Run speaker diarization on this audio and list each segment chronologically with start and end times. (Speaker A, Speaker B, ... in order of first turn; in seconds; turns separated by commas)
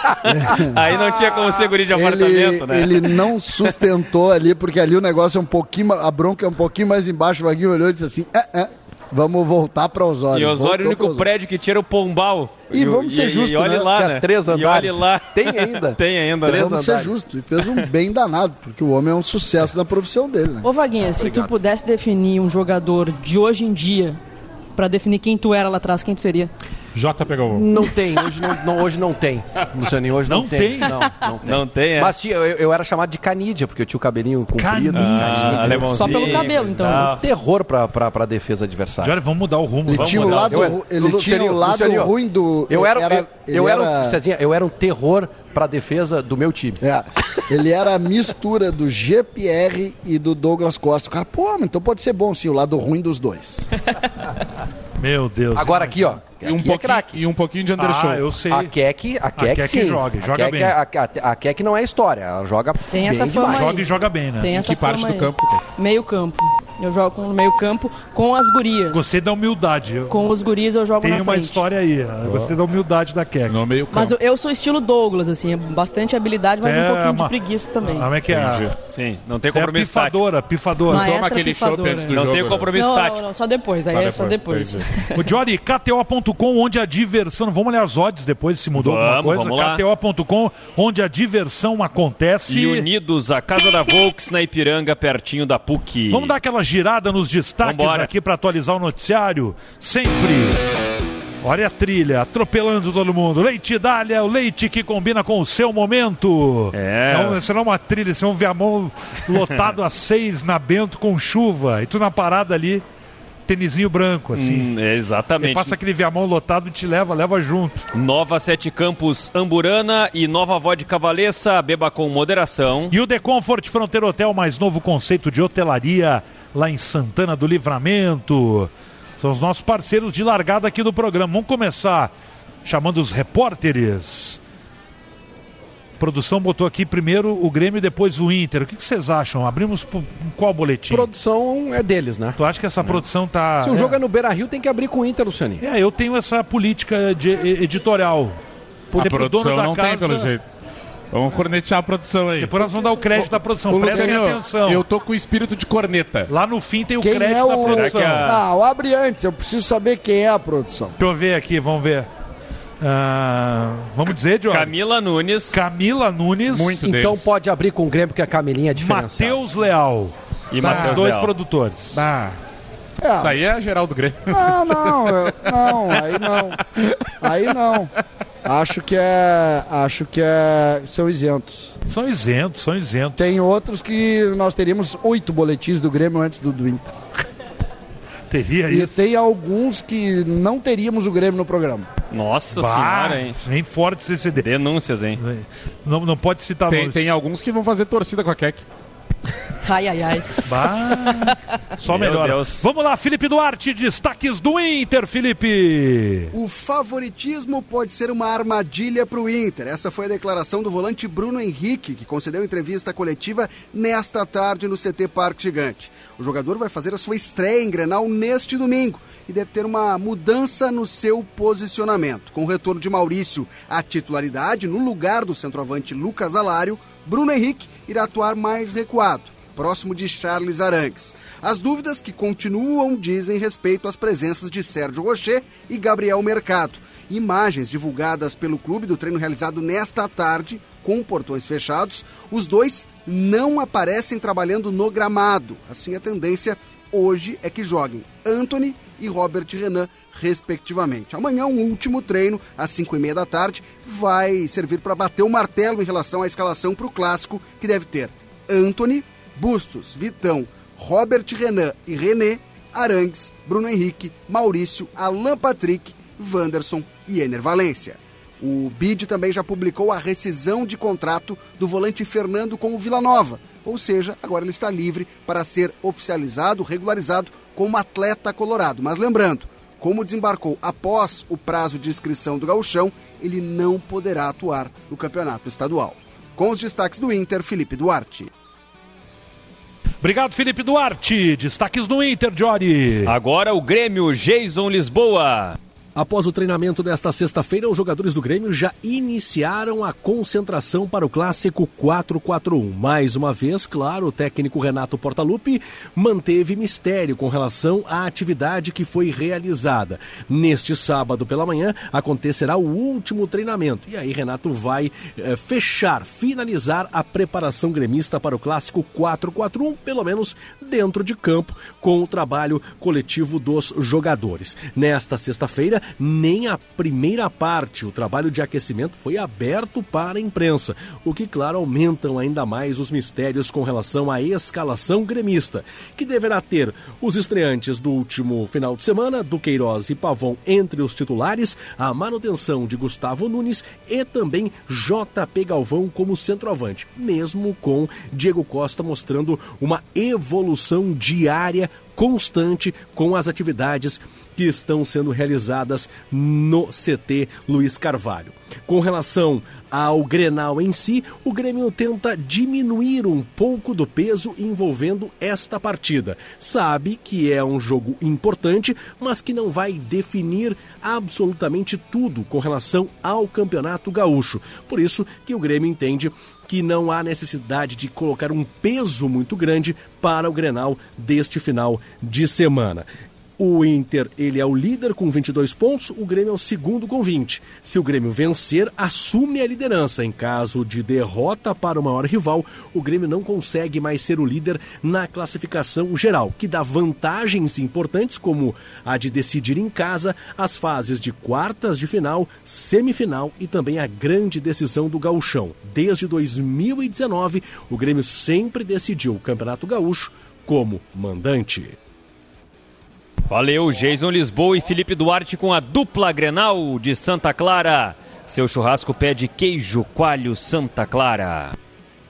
Speaker A: 0.3-11.3, Speaker B: 0.4-3.1, Speaker B: 10.3-16.8, Speaker A: 12.7-13.9, Speaker C: 13.7-17.1, Speaker A: 16.4-20.7, Speaker D: 20.6-24.2, Speaker C: 21.2-21.6, Speaker D: 24.8-26.5, Speaker E: 26.9-27.7, Speaker C: 27.5-39.1, Speaker F: 30.3-31.0, Speaker B: 31.4-32.1, Speaker F: 34.6-35.9, Speaker B: 35.0-37.2, Speaker D: 35.9-37.2, Speaker F: 39.0-40.7, Speaker A: 39.9-44.2, Speaker C: 40.0-42.1, Speaker C: 42.7-46.8, Speaker A: 46.8-53.7, Speaker F: 55.0-56.2, Speaker C: 55.5-57.2, Speaker E: 56.4-58.3, Speaker F: 57.8-58.7, Speaker C: 58.5-63.8, Speaker F: 59.4-60.8, Speaker D: 62.9-69.1, Speaker F: 63.4-64.5, Speaker E: 64.5-65.6, Speaker F: 68.9-70.1, Speaker D: 70.1-71.6, Speaker F: 71.0-73.6, Speaker E: 72.2-72.6, Speaker E: 73.5-74.2, Speaker D: 73.9-78.2, Speaker F: 76.6-78.8, Speaker E: 78.3-78.7, Speaker B: 78.8-80.2, Speaker F: 79.5-81.2, Speaker D: 80.9-85.2, Speaker E: 80.9-82.7, Speaker B: 82.1-83.3, Speaker E: 83.9-84.9, Speaker F: 85.2-92.9, Speaker B: 88.7-89.8, Speaker B: 92.5-96.3, Speaker F: 96.1-100.6, Speaker B: 97.6-98.1, Speaker F: 101.4-112.8, Speaker B: 106.7-107.4, Speaker F: 113.5-114.7, Speaker B: 114.3-115.8, Speaker F: 115.4-117.8, Speaker B: 117.9-123.0, Speaker F: 122.9-132.1, Speaker F: 132.6-134.4, Speaker F: 136.0-141.1, Speaker C: 140.9-143.0, Speaker F: 142.4-144.0, Speaker C: 143.6-145.6, Speaker F: 145.6-148.4, Speaker F: 148.9-150.3, Speaker E: 148.9-150.4, Speaker E: 151.1-156.3, Speaker F: 152.4-154.9, Speaker F: 156.3-158.4, Speaker A: 157.0-161.0, Speaker B: 157.6-158.4, Speaker F: 161.0-162.1, Speaker F: 162.8-164.8, Speaker B: 164.5-165.6, Speaker F: 165.5-166.8, Speaker E: 166.5-167.3, Speaker C: 166.8-169.4, Speaker F: 168.8-172.0, Speaker B: 170.5-171.3, Speaker E: 170.6-171.0, Speaker E: 171.9-172.4, Speaker A: 173.0-173.4, Speaker E: 173.2-176.5, Speaker A: 174.3-176.7, Speaker A: 177.2-177.9, Speaker A: 178.4-181.7, Speaker F: 181.9-183.3, Speaker A: 183.2-187.0, Speaker F: 188.3-189.1, Speaker A: 188.7-191.9, Speaker B: 192.1-193.4, Speaker F: 192.5-194.5, Speaker B: 194.4-195.2, Speaker F: 195.2-197.1, Speaker E: 196.7-198.7, Speaker D: 199.6-201.3, Speaker F: 200.5-206.3, Speaker B: 201.9-202.7, Speaker G: 206.3-288.3, Speaker F: 290.0-293.1, Speaker B: 293.1-295.6, Speaker H: 295.9-382.9, Speaker H: 383.4-411.8, Speaker B: 413.3-421.6